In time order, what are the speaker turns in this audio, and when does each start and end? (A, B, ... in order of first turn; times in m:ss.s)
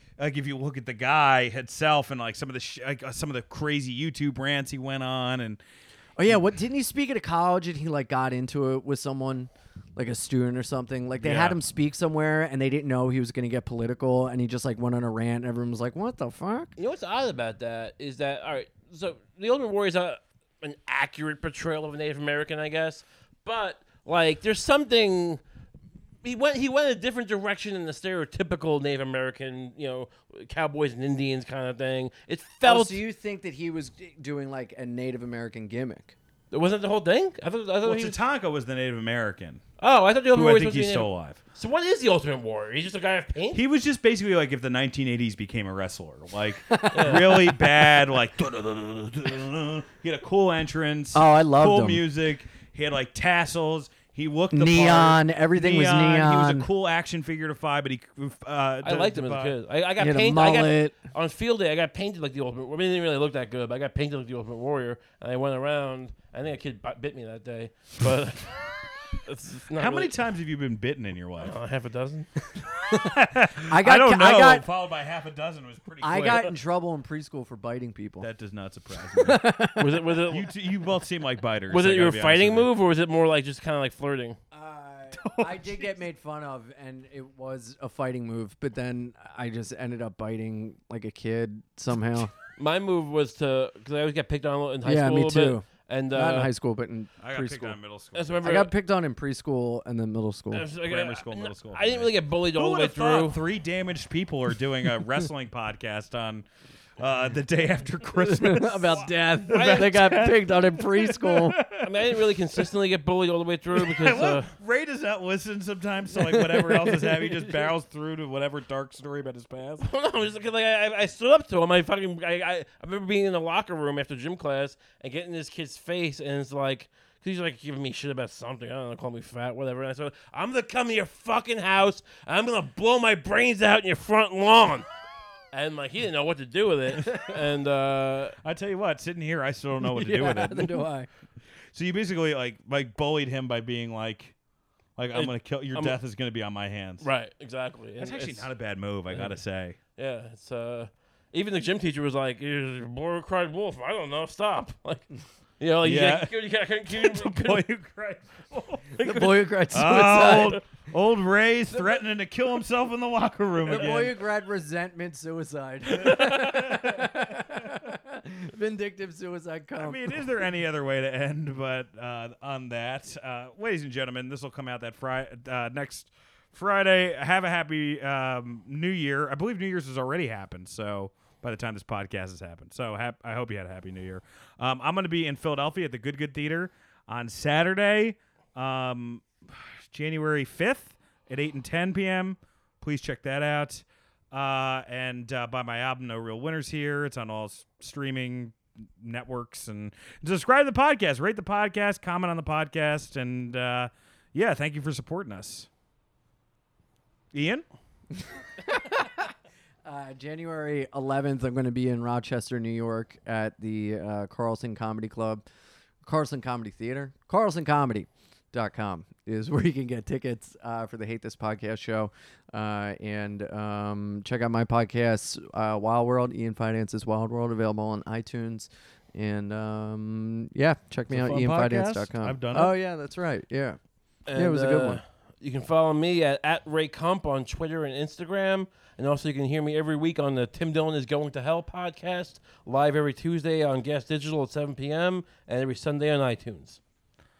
0:00.2-0:05.6 A
0:06.2-0:16.7 B
0:11.2-0:11.6 A
0:16.8-0:25.4 C
0:26.2-0:33.0 C
0:32.6-0:36.1 B
0:36.5-0:38.2 C
0:37.8-0:39.6 A
0:39.8-0:43.6 C
0:40.3-0:41.4 A
0:43.5-0:59.6 A
0:46.7-0:48.0 B
0:46.9-0:47.2 C
0:51.1-0:52.0 B
0:54.5-0:56.7 B
0:58.8-1:08.6 C
1:00.0-1:00.9 B
1:09.2-1:10.1 C
1:09.8-1:11.5 A
1:11.4-1:12.3 C
1:12.8-1:16.5 A
1:12.9-1:14.6 B
1:16.0-1:18.3 B
1:18.2-1:19.6 A
1:19.1-1:20.0 B
1:19.8-1:20.5 C
1:20.3-1:22.7 A
1:21.7-1:24.4 C
1:24.5-1:32.3 B
1:25.1-1:25.9 A
1:32.5-1:36.5 C
1:34.8-1:37.8 B
1:37.2-1:38.6 A
1:38.1-1:38.7 C
1:38.4-1:40.6 B
1:40.5-1:43.4 C
1:40.8-1:46.5 A
1:47.0-1:52.2 A
1:48.2-1:51.6 B
1:49.5-1:50.0 C
1:51.8-1:54.5 C
1:53.7-1:59.9 A
1:56.5-1:57.0 B
1:59.8-2:14.9 C
2:15.5-2:18.4 C
2:18.4-2:20.9 A
2:19.8-2:21.1 B
2:21.7-2:24.3 A
2:25.0-2:27.0 A
2:25.1-2:26.0 C
2:27.0-2:28.5 C
2:28.0-2:29.8 A
2:30.0-2:35.1 C
2:35.6-2:37.7 C
2:35.8-2:36.3 A
2:36.9-2:44.2 A
2:38.9-2:40.6 B
2:39.8-2:40.6 C
2:43.6-2:50.2 B
2:45.9-2:47.5 A
2:49.8-3:25.7 A
3:27.3-3:27.6 A
3:28.6-3:29.3 B
3:29.8-3:35.4 B
3:36.0-3:53.8 B
3:51.1-3:52.7 A
3:54.3-4:06.8 C
3:54.3-3:55.0 B